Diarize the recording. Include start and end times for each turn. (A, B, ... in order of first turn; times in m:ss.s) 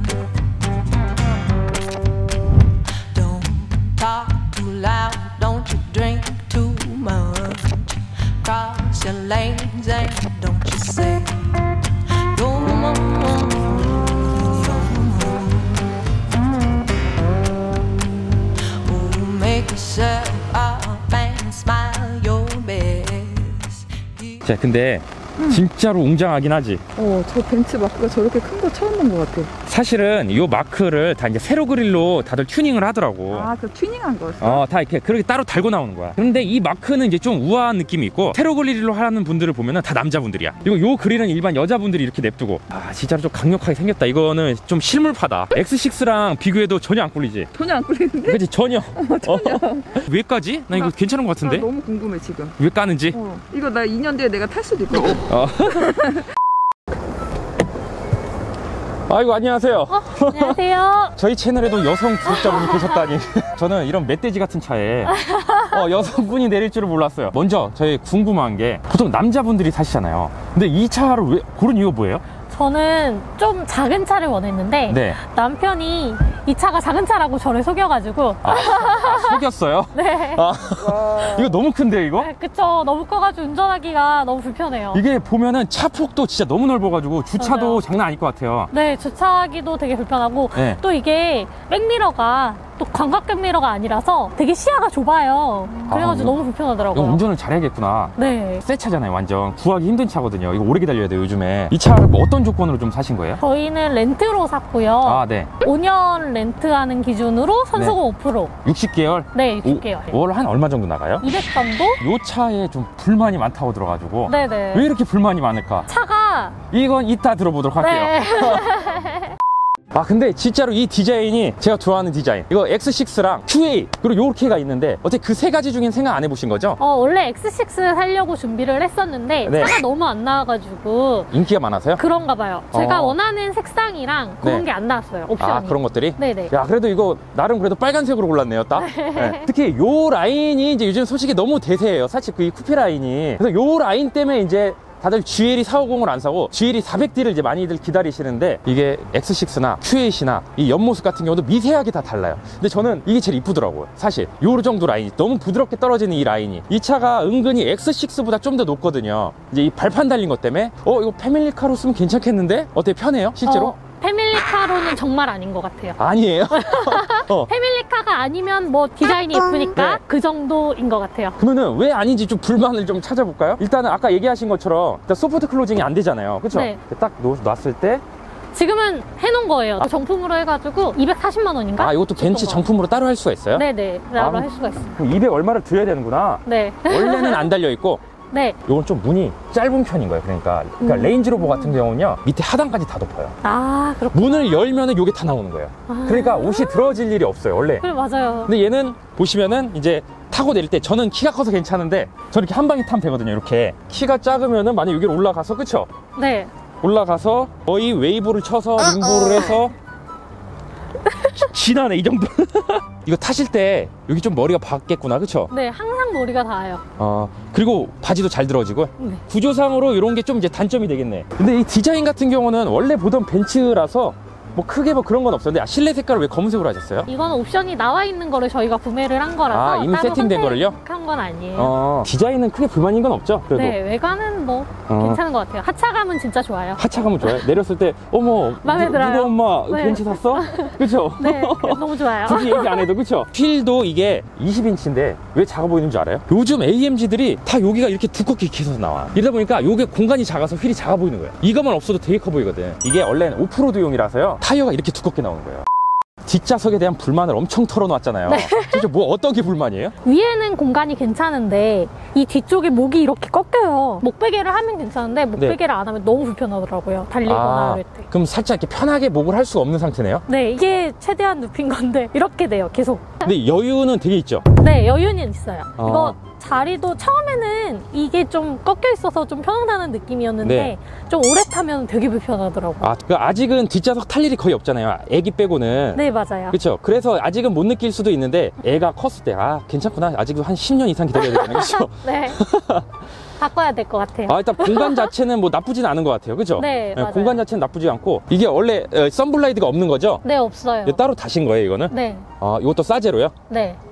0:03.1-0:16.0 A
0:18.6-0:24.4 A
0:24.4-0:26.8 B
0:25.4-0:25.6 C
0:27.0-0:29.5 C
0:29.6-0:33.5 B
0:33.3-0:34.6 C
0:34.4-0:47.5 B
0:47.5-0:48.4 C
0:48.2-0:51.7 B
0:49.0-0:49.9 C
0:50.7-0:52.6 C
0:52.6-0:53.2 B
0:53.1-0:55.3 C
0:55.2-0:56.0 B
0:59.1-1:00.6 B
0:59.9-1:01.2 D
1:01.1-1:12.2 B
1:05.1-1:05.8 D
1:12.5-1:20.5 D
1:14.9-1:15.2 B
1:18.4-1:22.3 B
1:22.2-1:25.0 D
1:24.9-1:28.7 B
1:27.4-1:27.8 D
1:28.7-1:37.2 D
1:30.5-1:30.8 B
1:35.9-1:36.4 B
1:36.9-1:43.4 B
1:38.2-1:38.6 D
1:43.4-1:48.5 D
1:45.0-1:45.5 B
1:48.6-1:51.3 B
1:49.3-1:50.2 D
1:51.2-1:52.0 D
1:52.0-1:55.9 B
1:54.3-1:54.9 D
1:55.9-1:56.6 D
1:56.7-1:58.9 B
1:57.8-1:59.4 D
1:59.9-2:06.8 B
2:06.8-2:11.3 D
2:09.4-2:09.8 B
2:11.3-2:12.0 B
2:12.0-2:16.5 D
2:12.7-2:13.2 B
2:15.4-2:43.8 B
2:18.8-2:19.5 D
2:43.4-2:51.4 D
2:46.0-2:47.5 B
2:49.5-2:50.0 B
2:51.4-2:58.0 B
2:56.5-2:56.8 D
2:58.5-3:02.7 D
3:01.8-3:08.0 B
3:03.5-3:05.0 D
3:06.4-3:07.5 D
3:08.3-3:08.6 D
3:08.6-3:13.4 B
3:10.8-3:11.7 D
3:13.4-3:14.6 D
3:14.1-3:17.9 B
3:15.9-3:17.0 D
3:17.8-3:18.5 D
3:18.4-3:25.9 B
3:26.2-3:26.5 D
3:26.8-3:29.7 B
3:31.2-3:35.5 B
3:35.5-3:36.8 D
3:37.0-3:47.1 B
3:39.0-3:39.2 D
3:47.1-3:51.8 D
3:49.5-3:50.8 B
3:51.6-3:53.8 B
3:53.5-3:57.3 D
3:54.9-3:55.2 B
3:56.8-4:15.7 B
3:58.6-4:02.9 D
4:16.2-4:20.0 B
4:18.3-4:18.9 D
4:20.0-4:28.1 D
4:27.3-4:30.2 B
4:30.3-4:33.3 D
4:33.2-4:34.5 B
4:34.5-4:42.9 D
4:35.8-4:36.2 B
4:40.4-4:40.7 B
4:42.8-4:52.9 B
4:46.0-4:46.6 D
4:51.1-4:52.4 D
4:53.4-4:55.1 D
4:54.3-5:00.2 B
4:56.6-4:57.4 D
5:00.2-5:01.0 D
5:00.8-5:03.3 B
5:01.9-5:02.3 D
5:03.5-5:03.8 D